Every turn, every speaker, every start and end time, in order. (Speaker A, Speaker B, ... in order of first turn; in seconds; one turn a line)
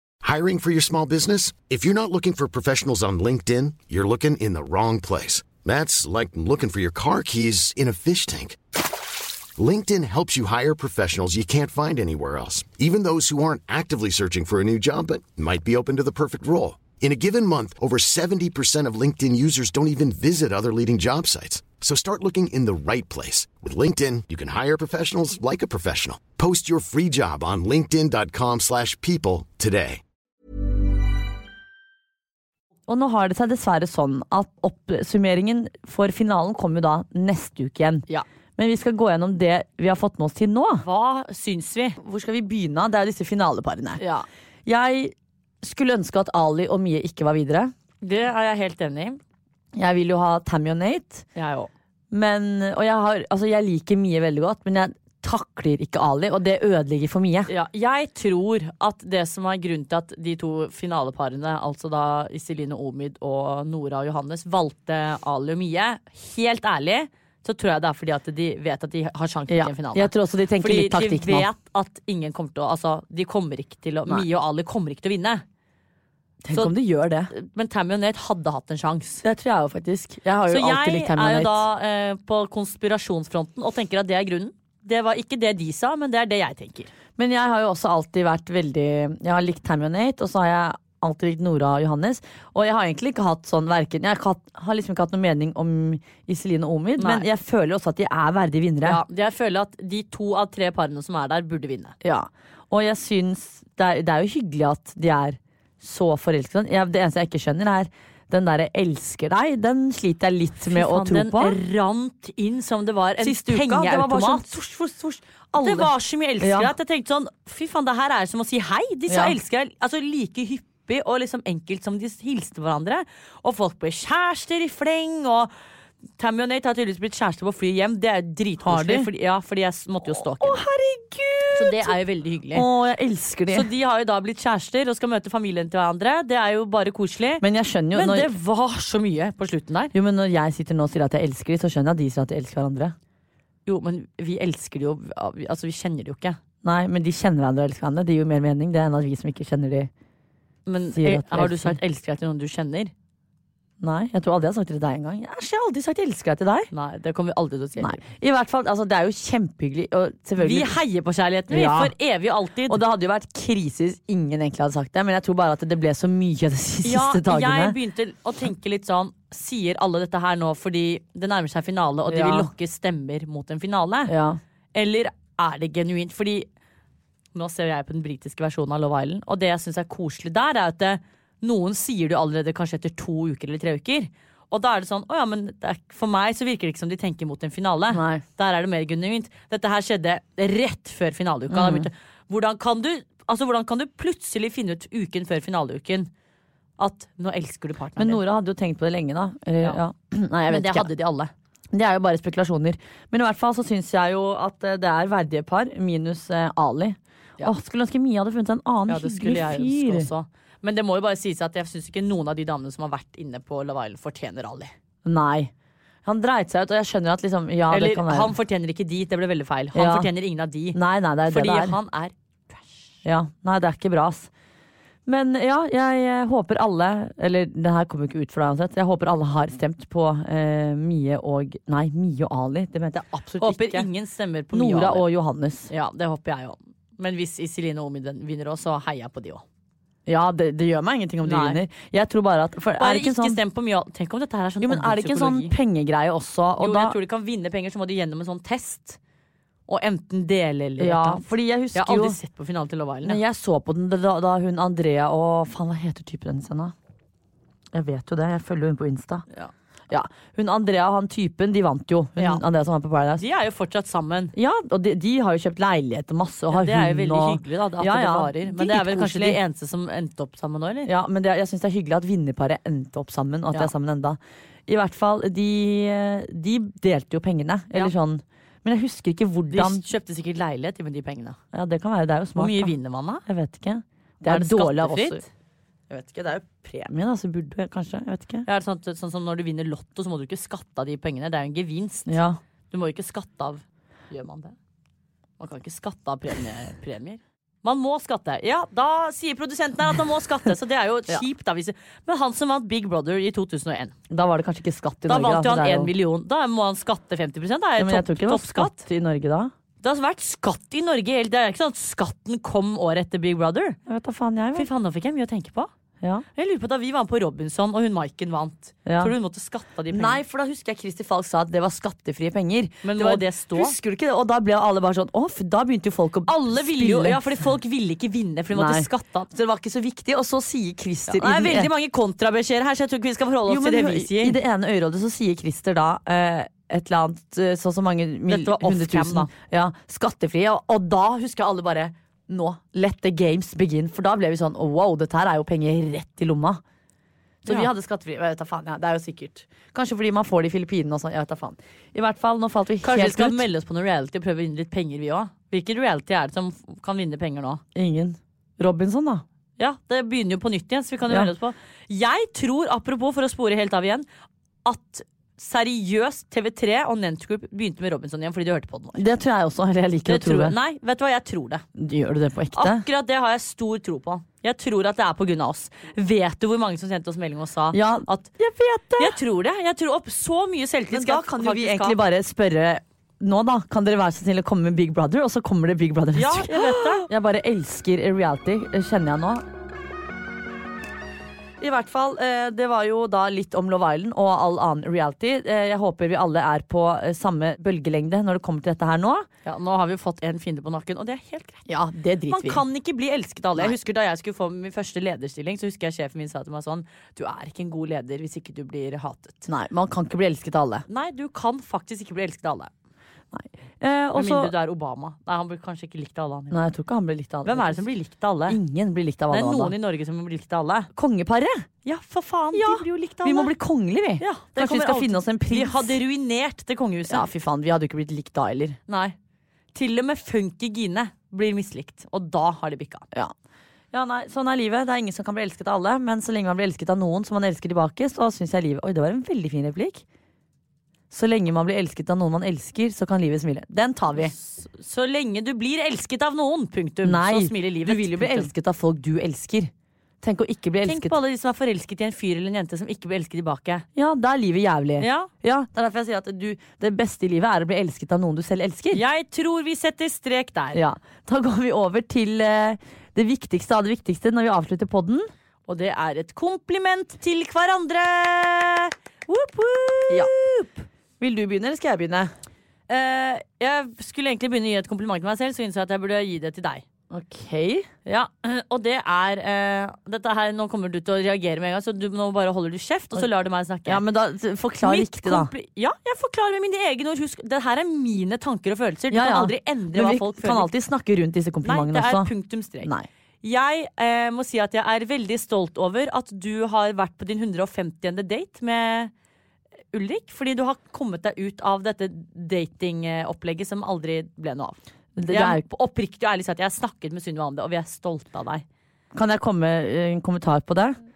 Speaker A: 0.2-8.6
Speaker A: 9.6-30.0
Speaker B: 32.9-40.8
Speaker C: 40.8-42.0
Speaker B: 42.0-44.0
Speaker C: 44.0-44.2
Speaker B: 44.6-47.7
Speaker C: 48.0-49.2
Speaker B: 49.7-51.2
Speaker C: 51.4-51.7
Speaker B: 52.1-57.5
Speaker C: 57.5-75.4
Speaker B: 69.5-71.5
Speaker B: 76.4-77.3
Speaker C: 77.3-79.2
Speaker B: 79.2-81.6
Speaker C: 80.5-86.9
Speaker B: 87.2-99.0
Speaker C: 97.0-97.2
Speaker C: 98.8-102.0
Speaker B: 102.0-111.6
Speaker C: 110.6-114.5
Speaker B: 113.2-116.7
Speaker C: 115.6-125.5
Speaker B: 119.1-119.3
Speaker C: 126.2-130.6
Speaker B: 128.6-129.1
Speaker B: 130.1-131.9
Speaker C: 131.5-132.7
Speaker B: 132.5-133.7
Speaker C: 133.5-139.9
Speaker B: 137.4-138.3
Speaker B: 139.9-142.9
Speaker C: 143.7-146.4
Speaker B: 146.6-149.9
Speaker C: 150.7-152.9
Speaker B: 150.9-151.8
Speaker B: 153.8-156.7
Speaker C: 156.7-158.0
Speaker B: 157.8-160.8
Speaker C: 160.4-162.8
Speaker B: 161.5-161.9
Speaker B: 162.7-167.8
Speaker C: 166.8-174.1
Speaker B: 172.1-172.5
Speaker B: 174.1-174.4
Speaker C: 174.7-176.5
Speaker C: 177.3-196.1
Speaker B: 187.9-188.2
Speaker B: 191.5-191.9
Speaker C: 196.8-198.2
Speaker B: 198.0-200.9
Speaker C: 200.5-201.3
Speaker B: 201.7-210.1
Speaker C: 208.9-214.7
Speaker B: 215.0-215.5
Speaker B: 216.0-218.3
Speaker C: 217.7-222.9
Speaker B: 219.7-220.1
Speaker B: 220.7-221.8
Speaker B: 223.0-224.3
Speaker B: 225.1-233.9
Speaker C: 233.4-235.1
Speaker B: 234.5-235.7
Speaker C: 235.7-239.4
Speaker B: 240.1-243.4
Speaker C: 241.2-241.6
Speaker C: 242.8-245.5
Speaker B: 244.6-246.9
Speaker C: 246.6-249.0
Speaker C: 249.7-253.2
Speaker B: 250.8-252.2
Speaker B: 253.0-256.7
Speaker B: 257.7-259.2
Speaker B: 259.9-263.2
Speaker C: 262.2-262.4
Speaker C: 263.2-264.3
Speaker B: 264.3-269.4
Speaker C: 266.5-270.9
Speaker B: 270.9-279.8
Speaker C: 279.5-281.4
Speaker B: 281.5-282.7
Speaker C: 282.3-283.2
Speaker B: 283.2-285.2
Speaker C: 284.2-285.3
Speaker B: 285.9-288.5
Speaker C: 288.4-294.6
Speaker B: 292.1-292.4
Speaker C: 295.4-303.9
Speaker B: 304.1-305.9
Speaker C: 305.1-308.8
Speaker B: 307.8-309.5
Speaker C: 309.8-313.8
Speaker B: 313.9-314.7
Speaker C: 314.5-315.7
Speaker C: 316.3-320.2
Speaker B: 318.9-319.1
Speaker B: 319.9-327.4
Speaker C: 322.8-323.7
Speaker C: 326.3-329.3
Speaker B: 328.5-331.7
Speaker C: 331.1-334.4
Speaker B: 333.5-346.6
Speaker C: 338.3-339.3
Speaker B: 347.4-353.5
Speaker C: 347.4-347.7
Speaker C: 352.8-357.6
Speaker B: 357.7-359.2
Speaker C: 359.6-364.1
Speaker C: 364.6-369.0
Speaker B: 368.9-370.6
Speaker C: 370.0-371.6
Speaker B: 371.8-372.8
Speaker C: 372.5-378.3
Speaker B: 377.7-379.2
Speaker C: 379.0-382.0
Speaker B: 380.9-389.4
Speaker C: 386.1-387.1
Speaker B: 391.6-399.3
Speaker C: 399.4-401.6
Speaker B: 401.7-402.6
Speaker C: 402.3-409.5
Speaker B: 409.4-410.9
Speaker C: 410.9-412.7
Speaker B: 413.3-414.5
Speaker C: 414.1-416.6
Speaker B: 416.5-417.8
Speaker C: 417.4-418.6
Speaker B: 418.5-419.7
Speaker C: 419.3-420.9
Speaker B: 420.9-421.7
Speaker C: 421.8-423.5
Speaker B: 422.5-426.0
Speaker C: 424.2-427.3
Speaker B: 427.1-428.8
Speaker C: 428.9-429.1
Speaker C: 429.7-433.1
Speaker B: 433.9-440.0
Speaker B: 441.1-444.3
Speaker C: 444.1-448.5
Speaker B: 447.0-449.7
Speaker B: 450.2-451.1
Speaker C: 450.8-453.8
Speaker B: 453.9-459.0
Speaker C: 455.0-455.3
Speaker C: 458.9-460.8
Speaker B: 460.7-465.3
Speaker C: 465.7-470.8
Speaker B: 471.2-472.3
Speaker C: 472.9-476.8
Speaker B: 477.1-477.9
Speaker C: 478.1-484.0
Speaker B: 483.9-485.5
Speaker C: 484.8-490.7
Speaker B: 489.1-493.1
Speaker C: 491.6-492.9
Speaker C: 493.4-499.1
Speaker C: 499.9-508.6
Speaker B: 505.1-505.6
Speaker B: 509.1-511.0